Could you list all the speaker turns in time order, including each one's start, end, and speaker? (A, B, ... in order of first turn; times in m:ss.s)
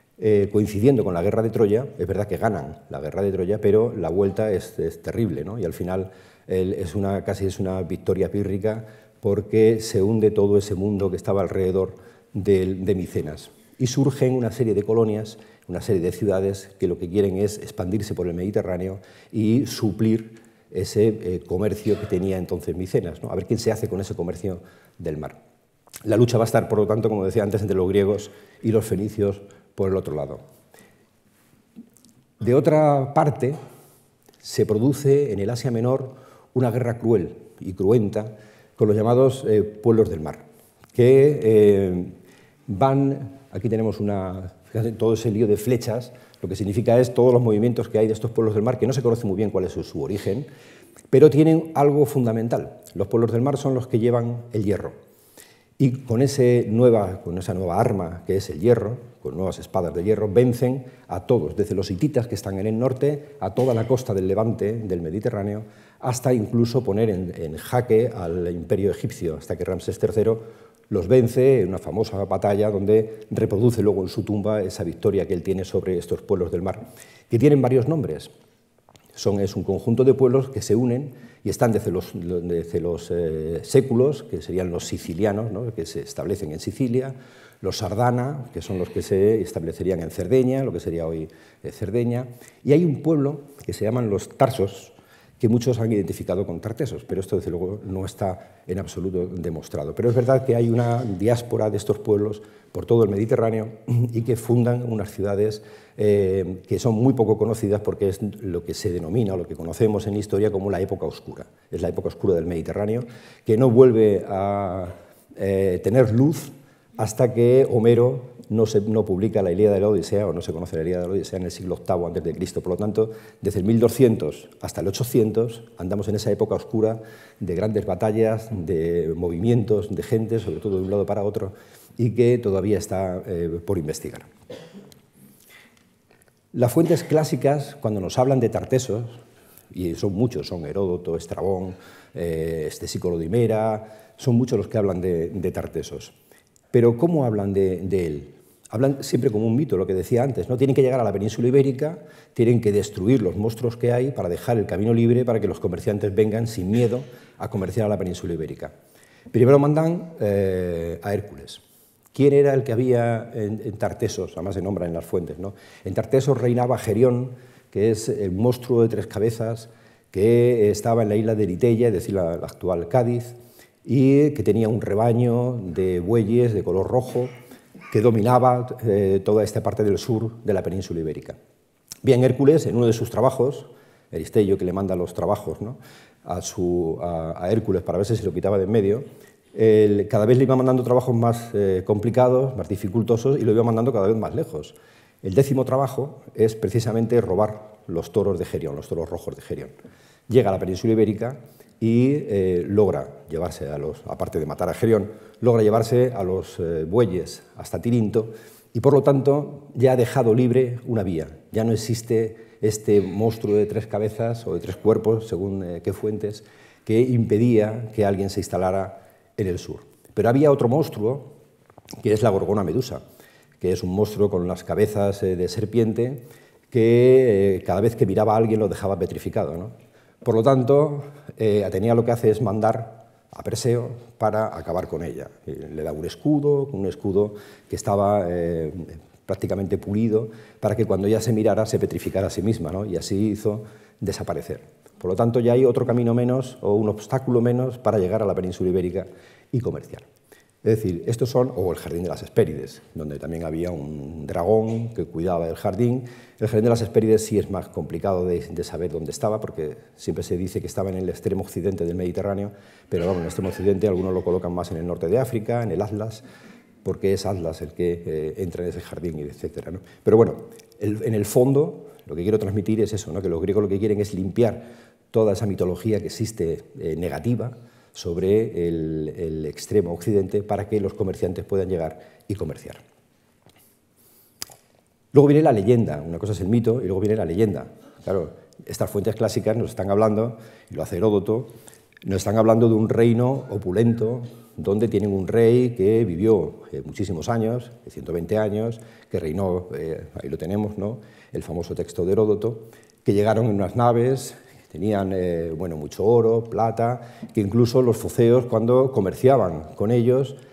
0:00.2-0:25.4 A
0:26.0-0:30.4 A
0:32.4-0:33.6 A
0:34.4-0:42.1 A
0:42.7-0:50.5 A
0:51.1-0:54.9 A
0:55.8-1:18.3 A
1:19.1-2:14.3 A
2:16.5-2:19.2 A
2:19.7-2:26.1 A
2:26.7-2:38.7 A
2:39.3-2:41.6 A
2:42.1-2:57.3 A
2:57.9-3:01.4 A
3:02.0-3:19.7 A
3:20.3-3:41.3 A
3:42.0-3:43.0 A
3:43.6-4:10.0 A
4:10.6-4:26.2 A
4:26.8-4:42.8 A
4:45.1-4:51.5 A
4:52.0-5:10.4 A